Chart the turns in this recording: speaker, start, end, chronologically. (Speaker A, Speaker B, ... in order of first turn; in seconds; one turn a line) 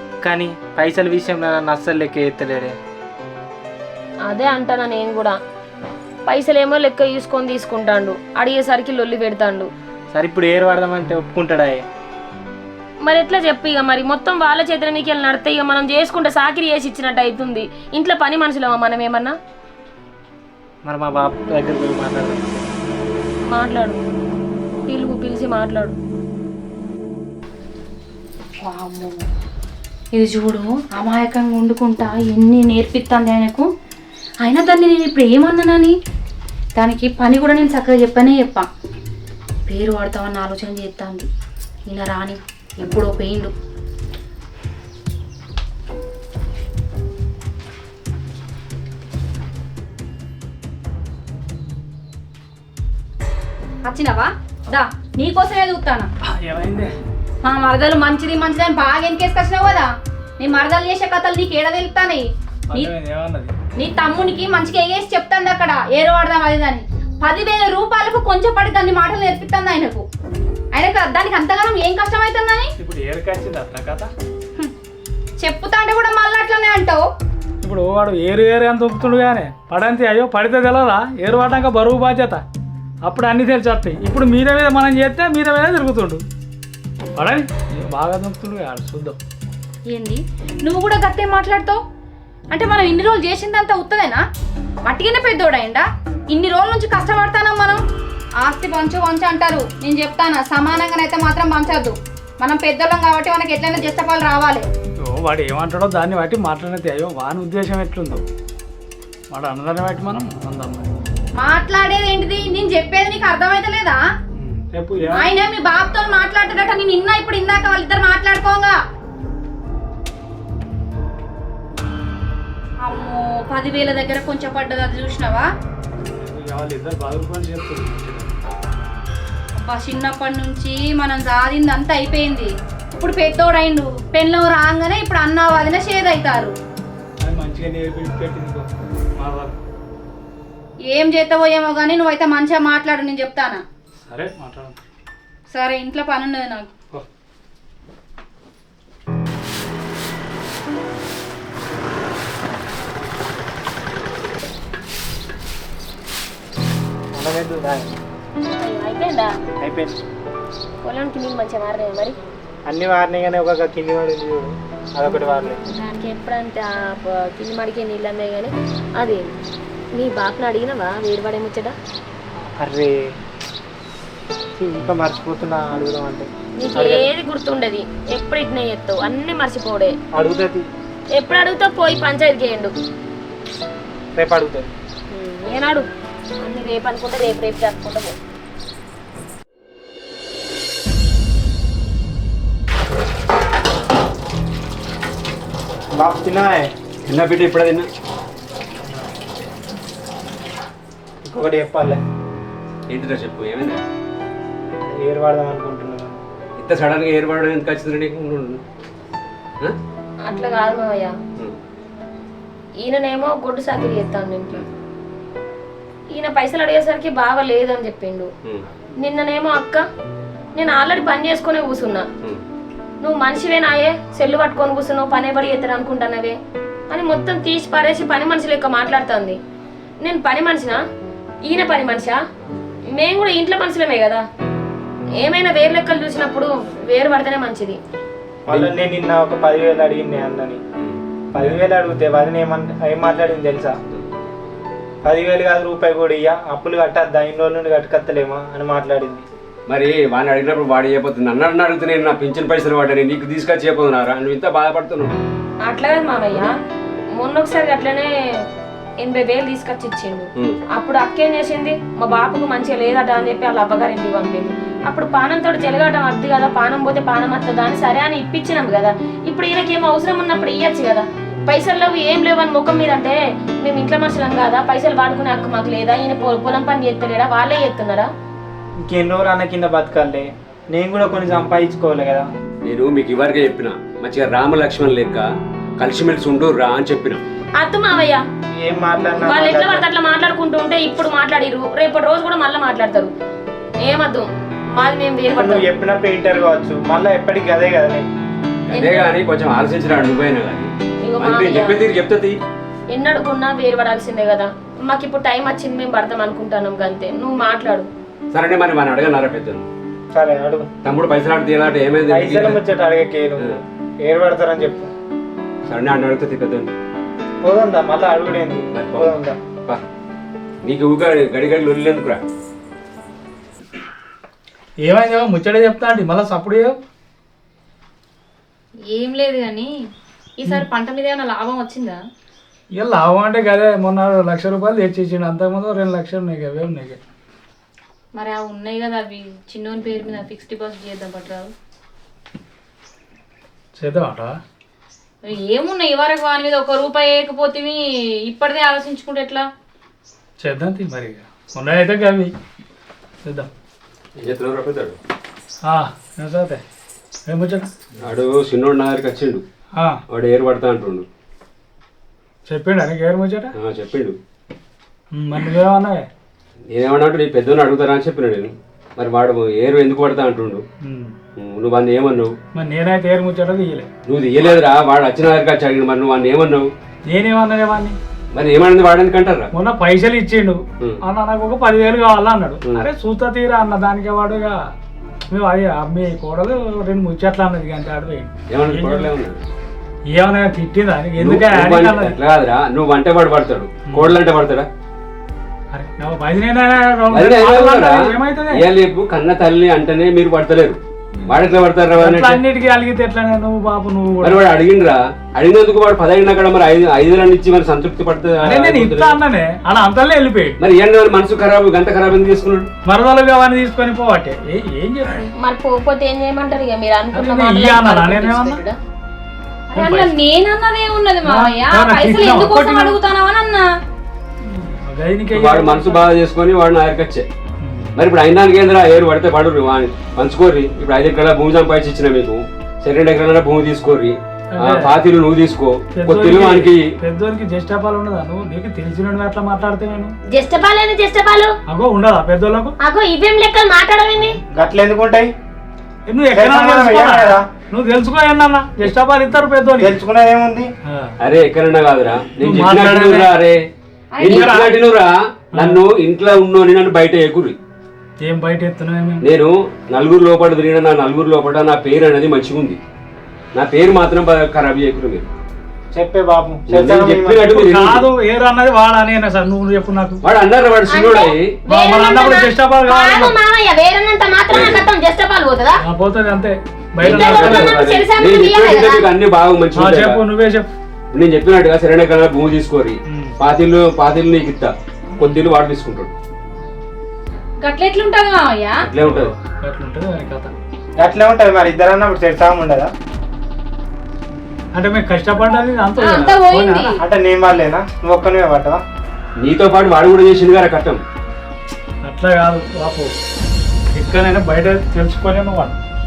Speaker A: 0.2-2.8
Speaker B: 4.3-5.4
Speaker B: 6.3-9.7
Speaker A: 10.1-11.8
Speaker B: 13.0-19.4
Speaker A: 20.9-22.7
Speaker B: 23.5-24.0
Speaker B: 24.9-26.0
Speaker C: 28.6-29.2
Speaker C: 30.1-33.7
Speaker C: 34.4-36.0
Speaker C: 36.8-38.7
Speaker C: 39.7-41.3
Speaker C: 41.9-43.5
Speaker C: 53.9-56.1
Speaker D: 56.2-56.9
Speaker C: 57.4-62.9
Speaker D: 62.7-63.5
Speaker C: 63.8-70.1
Speaker C: 70.7-72.7
Speaker D: 72.8-74.1
Speaker C: 75.4-77.0
Speaker D: 77.6-82.4
Speaker D: 83.0-86.2
Speaker D: 87.2-89.2
Speaker C: 89.9-91.8
Speaker C: 92.5-94.2
Speaker C: 94.8-97.8
Speaker C: 98.4-104.7
Speaker D: 105.0-108.2
Speaker D: 109.3-110.9
Speaker C: 111.4-114.0
Speaker D: 114.4-115.3
Speaker C: 115.1-118.8
Speaker C: 122.8-125.5
Speaker D: 126.1-128.4
Speaker C: 129.6-136.6
Speaker D: 137.2-139.6
Speaker C: 140.9-143.6
Speaker D: 144.1-144.8
Speaker C: 145.5-146.7
Speaker A: 157.1-158.0
Speaker B: 158.4-159.3
Speaker A: 159.6-160.0
Speaker B: 160.8-162.2
Speaker A: 162.7-165.6
Speaker B: 165.7-169.3
Speaker B: 169.9-171.8
Speaker A: 172.6-172.9
Speaker A: 174.6-177.1
Speaker B: 176.6-180.0
Speaker A: 180.1-180.7
Speaker B: 181.2-182.7
Speaker A: 184.2-184.7
Speaker B: 185.1-185.9
Speaker B: 186.4-188.2
Speaker A: 195.9-196.7
Speaker E: 197.1-197.9
Speaker A: 201.2-202.0
Speaker E: 202.9-203.8
Speaker A: 204.8-206.2
Speaker E: 206.6-208.6
Speaker B: 210.3-211.2
Speaker B: 212.8-214.7
Speaker B: 216.1-218.3
Speaker B: 219.0-219.8
Speaker B: 220.6-222.1
Speaker B: 223.0-226.4
Speaker B: 226.9-229.4
Speaker B: 230.0-230.8
Speaker B: 231.5-232.2
Speaker B: 232.9-234.2
Speaker B: 235.2-237.8
Speaker A: 238.5-240.6
Speaker E: 238.5-238.8
Speaker E: 240.8-241.4
Speaker A: 241.3-243.8
Speaker A: 245.1-249.2
Speaker E: 249.7-255.2
Speaker B: 255.6-256.5
Speaker B: 257.2-258.5
Speaker B: 259.0-278.1
Speaker A: 278.9-282.3
Speaker E: 282.6-287.2
Speaker B: 287.6-288.2
Speaker A: 288.6-289.9
Speaker B: 289.2-293.1
Speaker B: 293.8-295.6
Speaker A: 295.3-298.1
Speaker E: 298.7-302.4
Speaker B: 298.7-299.1
Speaker B: 301.1-301.8
Speaker B: 302.9-307.9
Speaker E: 308.3-309.6
Speaker A: 310.1-310.7
Speaker E: 310.8-312.6
Speaker A: 312.1-314.9
Speaker E: 315.7-316.7
Speaker A: 317.4-319.4
Speaker E: 318.7-319.1
Speaker E: 320.6-322.2
Speaker D: 324.8-326.8
Speaker C: 328.9-329.8
Speaker C: 330.4-332.0
Speaker D: 332.8-337.0
Speaker C: 338.1-341.5
Speaker D: 343.8-344.4
Speaker C: 345.2-349.5
Speaker D: 350.4-352.3
Speaker E: 354.2-355.0
Speaker D: 355.6-356.6
Speaker D: 357.3-357.7
Speaker E: 358.0-359.4
Speaker D: 359.8-360.0
Speaker E: 360.1-361.1
Speaker D: 362.5-363.5
Speaker E: 363.6-364.2
Speaker D: 365.1-366.1
Speaker E: 366.7-370.6
Speaker D: 370.8-371.1
Speaker E: 371.4-372.4
Speaker D: 372.6-373.9
Speaker E: 374.1-376.7
Speaker D: 377.1-378.0
Speaker E: 378.3-379.5
Speaker D: 379.5-384.6
Speaker D: 385.3-389.1
Speaker E: 388.5-389.4
Speaker D: 390.1-392.2
Speaker E: 391.2-394.7
Speaker D: 393.9-394.2
Speaker D: 395.7-398.6
Speaker E: 397.1-402.4
Speaker D: 402.0-404.4
Speaker E: 404.2-409.2
Speaker D: 408.4-410.6
Speaker E: 410.6-412.7
Speaker D: 412.9-415.3
Speaker B: 415.4-418.8
Speaker D: 417.1-418.6
Speaker C: 419.7-423.7
Speaker D: 419.8-420.1
Speaker D: 421.2-423.0
Speaker D: 424.4-426.1
Speaker E: 425.3-427.3
Speaker D: 427.6-428.0
Speaker E: 428.0-436.9
Speaker D: 434.5-434.9
Speaker D: 436.0-440.1
Speaker B: 440.3-441.5
Speaker D: 441.7-442.7
Speaker B: 442.8-444.4
Speaker A: 444.5-445.3
Speaker D: 446.1-450.0
Speaker A: 446.3-447.5
Speaker A: 449.8-450.7
Speaker D: 450.9-451.1
Speaker E: 451.2-453.6
Speaker D: 452.4-453.3
Speaker C: 454.1-454.7
Speaker E: 454.2-457.6
Speaker D: 454.2-454.8
Speaker D: 455.5-455.8
Speaker D: 458.2-459.3
Speaker E: 459.2-462.8
Speaker E: 463.5-465.3
Speaker A: 465.9-467.6
Speaker E: 466.7-468.1
Speaker D: 467.5-470.2
Speaker E: 470.2-471.6
Speaker B: 470.9-475.8
Speaker D: 471.7-473.4
Speaker E: 474.5-474.9
Speaker D: 475.8-477.8
Speaker E: 477.0-480.2
Speaker B: 477.0-479.1
Speaker D: 479.8-480.7
Speaker E: 481.1-486.1
Speaker C: 487.6-488.8
Speaker E: 488.9-489.3
Speaker D: 489.0-490.5
Speaker A: 491.0-492.9
Speaker D: 494.7-497.0
Speaker C: 496.0-497.0
Speaker A: 497.0-498.8
Speaker E: 499.4-501.0
Speaker D: 502.0-503.1
Speaker D: 503.9-505.8